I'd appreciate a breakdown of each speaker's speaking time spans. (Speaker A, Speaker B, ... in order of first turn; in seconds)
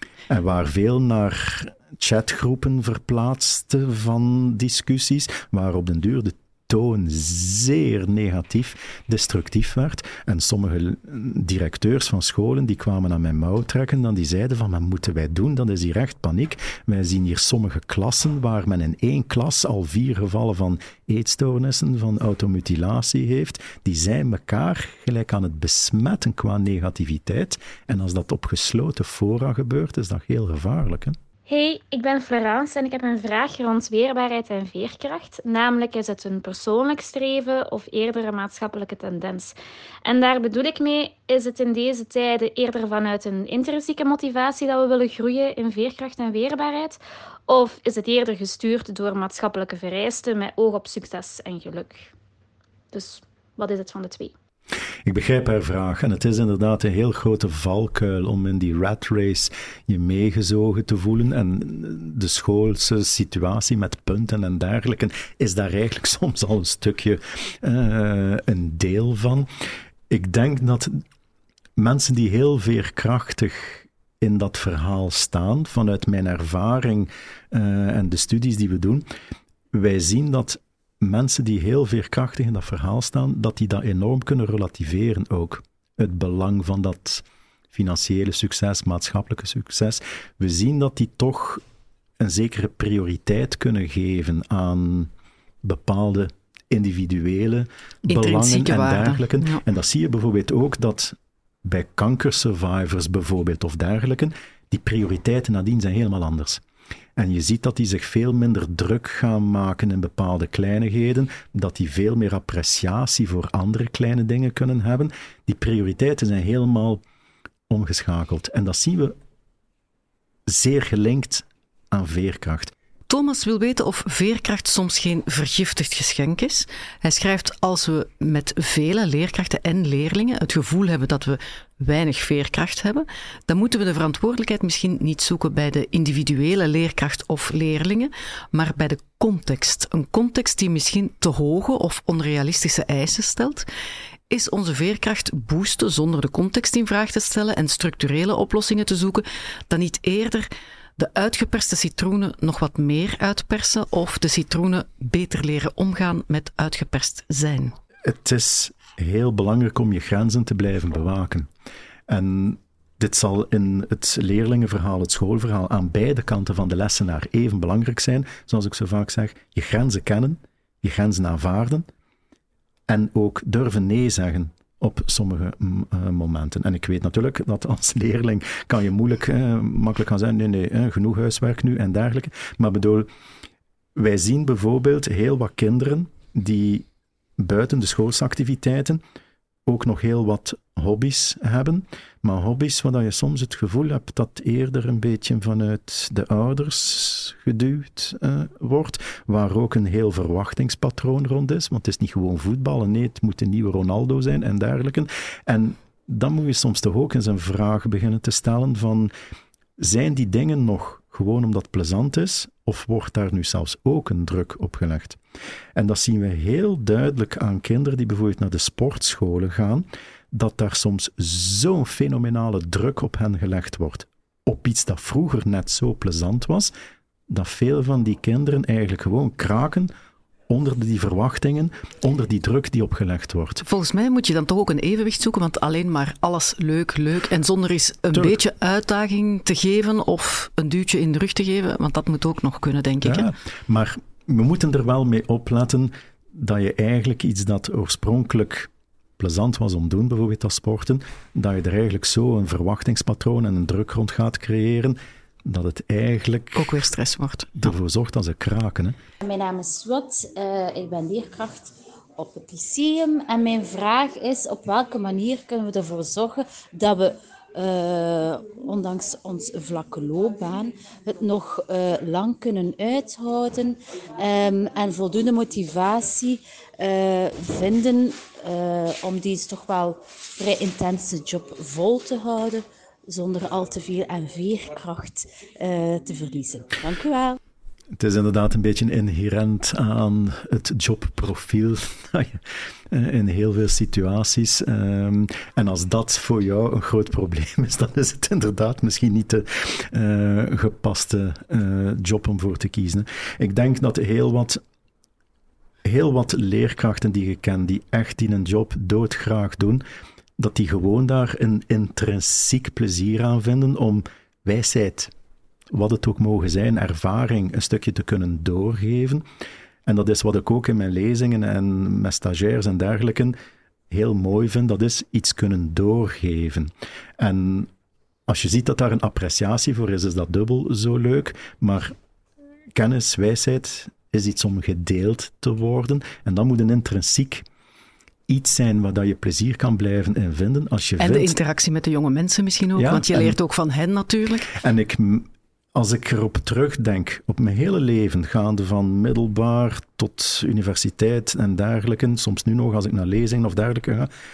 Speaker A: 0.3-31.2, 55.0-69.5, 70.1-71.0, 71.8-79.1, 79.7-91.6, 92.2-95.1, 95.6-106.6, 107.2-117.0, 117.7-119.2, 120.5-122.7, 158.0-161.5, 162.1-171.9, 172.9-183.1, 183.9-186.9, 187.4-189.0, 189.7-209.1, 209.8-215.2, 215.8-226.7, 227.3-229.9, 230.5-233.6, 243.0-256.8, 257.6-259.0, 288.0-304.6, 305.8-309.8, 310.4-315.1, 315.7-319.3, 319.9-323.4, 323.9-327.7, 328.3-331.9, 332.8-337.5, 338.3-341.4, 342.8-343.4, 344.5-354.1
Speaker B: 31.5-52.1, 52.9-54.3
Speaker C: 98.1-99.6, 123.1-143.7, 144.3-157.8, 233.6-243.3, 256.6-257.7, 341.0-344.5
Speaker D: 259.2-287.4